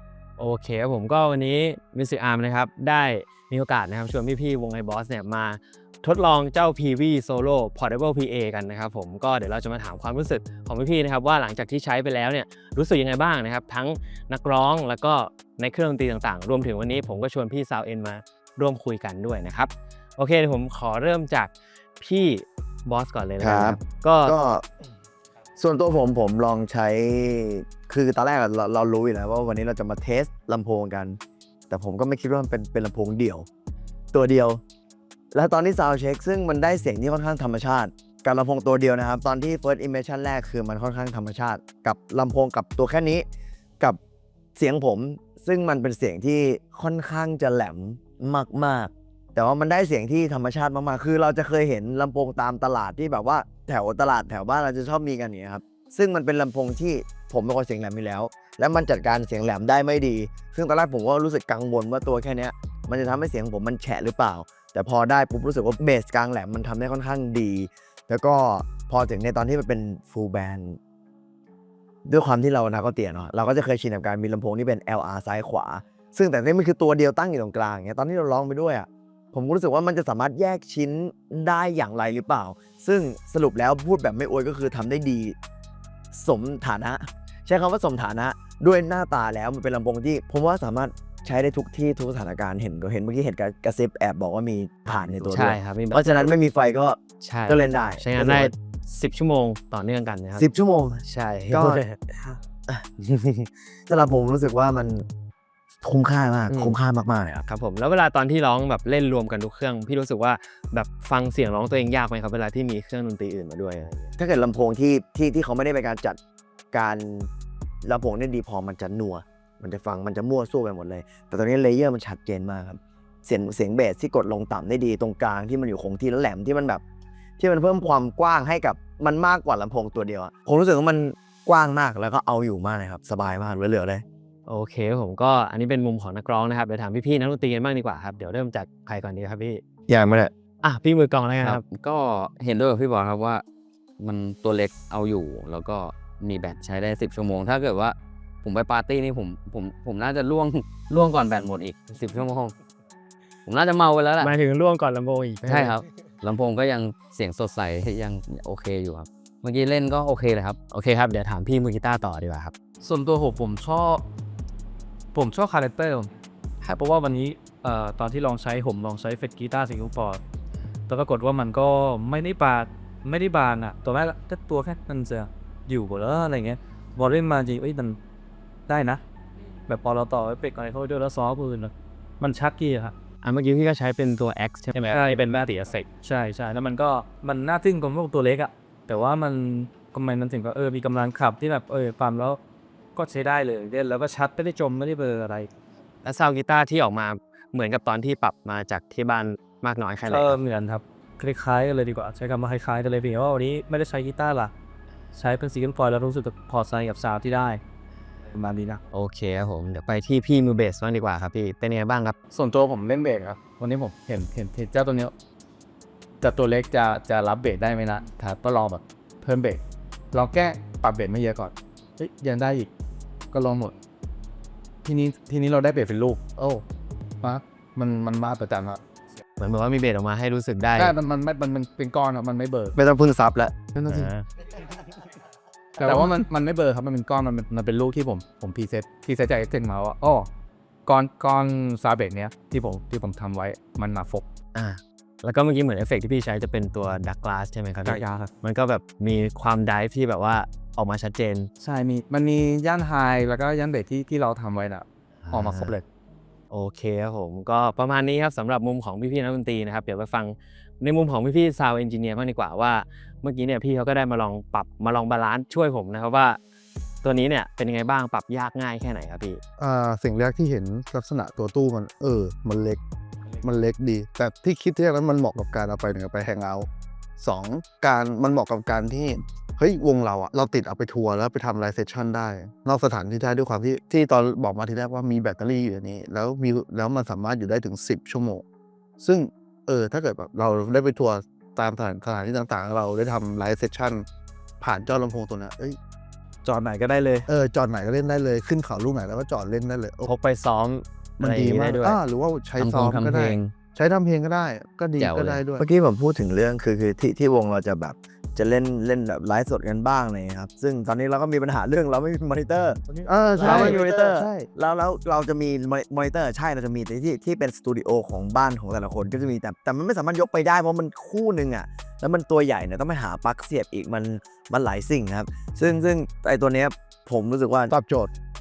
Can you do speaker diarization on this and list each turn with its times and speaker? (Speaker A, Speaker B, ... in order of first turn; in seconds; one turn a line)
Speaker A: 0.4-24.5
Speaker B: 23.4-24.6
Speaker B: 25.6-31.2
Speaker B: 31.7-33.5
Speaker B: 34.1-34.6
Speaker B: 35.3-43.2
Speaker B: 44.5-70.8
Speaker B: 72.0-85.3
Speaker B: 86.1-98.5
Speaker A: 95.2-96.1
Speaker A: 97.2-100.5
Speaker B: 100.3-105.0
Speaker A: 101.0-102.1
Speaker B: 105.8-107.4
Speaker A: 106.5-106.8
Speaker A: 107.4-114.1
Speaker B: 114.2-116.2
Speaker B: 116.7-117.3
Speaker B: 117.8-126.8
Speaker B: 127.4-134.0
Speaker A: 134.5-139.6
Speaker B: 139.9-140.3
Speaker A: 140.6-141.6
Speaker C: 141.4-143.4
Speaker C: 144.0-152.5
Speaker C: 153.4-154.3
Speaker A: 154.2-155.8
Speaker C: 155.4-160.6
Speaker A: 160.7-162.5
Speaker D: 162.8-164.0
Speaker D: 165.1-170.2
Speaker D: 170.9-178.0
Speaker D: 178.7-179.0
Speaker D: 179.7-182.9
Speaker A: 183.2-185.8
Speaker D: 184.8-192.4
Speaker D: 192.9-195.5
Speaker A: 196.0-200.4
Speaker D: 200.1-204.5
Speaker D: 205.1-207.6
Speaker D: 208.2-208.8
Speaker A: 208.9-212.2
Speaker E: 212.3-215.1
Speaker E: 216.2-219.6
Speaker E: 220.1-222.7
Speaker E: 223.3-223.8
Speaker E: 224.8-226.6
Speaker E: 227.2-228.8
Speaker A: 229.4-230.9
Speaker E: 230.8-232.8
Speaker B: 232.8-233.6
Speaker E: 233.7-234.1
Speaker A: 233.9-234.2
Speaker E: 235.8-240.3
Speaker E: 240.8-244.2
Speaker A: 244.5-251.5
Speaker E: 247.8-248.3
Speaker E: 251.6-255.8
Speaker A: 255.2-255.7
Speaker A: 256.5-266.4
Speaker A: 267.0-269.4
Speaker F: 269.6-272.8
Speaker F: 273.4-288.4
Speaker F: 289.0-294.1
Speaker F: 294.6-295.8
Speaker D: 296.4-297.2
Speaker F: 297.3-300.1
Speaker A: 300.0-302.0
Speaker F: 301.2-305.6
Speaker C: 302.6-303.5
Speaker C: 305.0-305.4
Speaker B: 305.6-312.8
Speaker F: 312.9-314.5
Speaker B: 313.4-327.7
Speaker F: 327.7-328.1